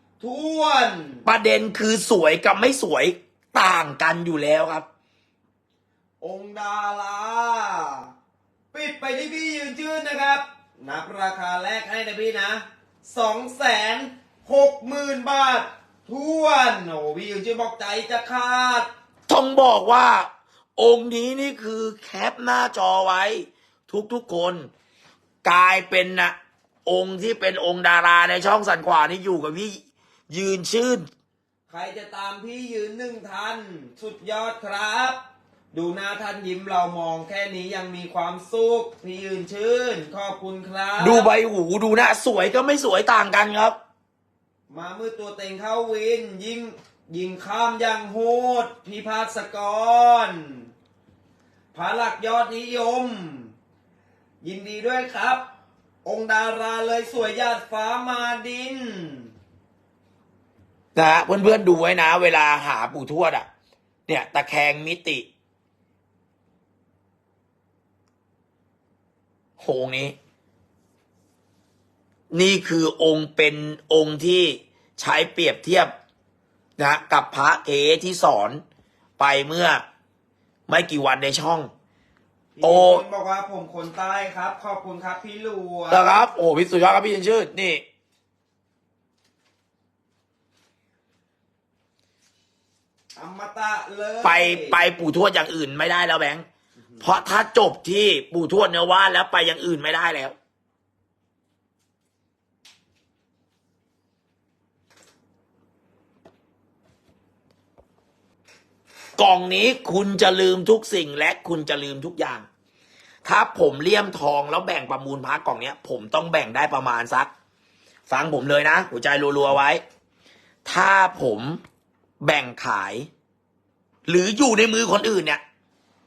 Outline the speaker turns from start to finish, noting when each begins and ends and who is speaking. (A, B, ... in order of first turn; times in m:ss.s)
0:00.2-0:01.3 A
0:01.2-0:04.9 B
0:06.2-0:08.1 A
0:08.7-0:18.9 A
0:19.3-0:24.7 B
0:25.4-0:31.1 B
0:31.7-0:35.2 A
0:35.7-0:41.3 A
0:41.0-0:43.8 B
0:44.7-0:50.7 A
0:51.7-0:53.5 A
0:54.4-0:55.4 A
0:56.0-0:59.3 A
1:01.0-1:03.5 B
1:04.1-1:05.3 B
1:09.6-1:10.2 B
1:12.3-1:15.9 B
1:16.8-1:18.6 B
1:19.2-1:19.8 B
1:20.7-1:21.7 B
1:22.6-1:26.1 A
1:22.6-1:23.0 B
1:25.9-1:27.8 B
1:33.2-1:34.8 A
1:34.2-1:36.5 B
1:37.0-1:40.4 B
1:49.2-1:52.5 B
1:53.2-1:57.3 B
1:58.1-1:59.8 B
2:00.7-2:01.6 B
2:02.2-2:03.1 B
2:04.1-2:05.4 B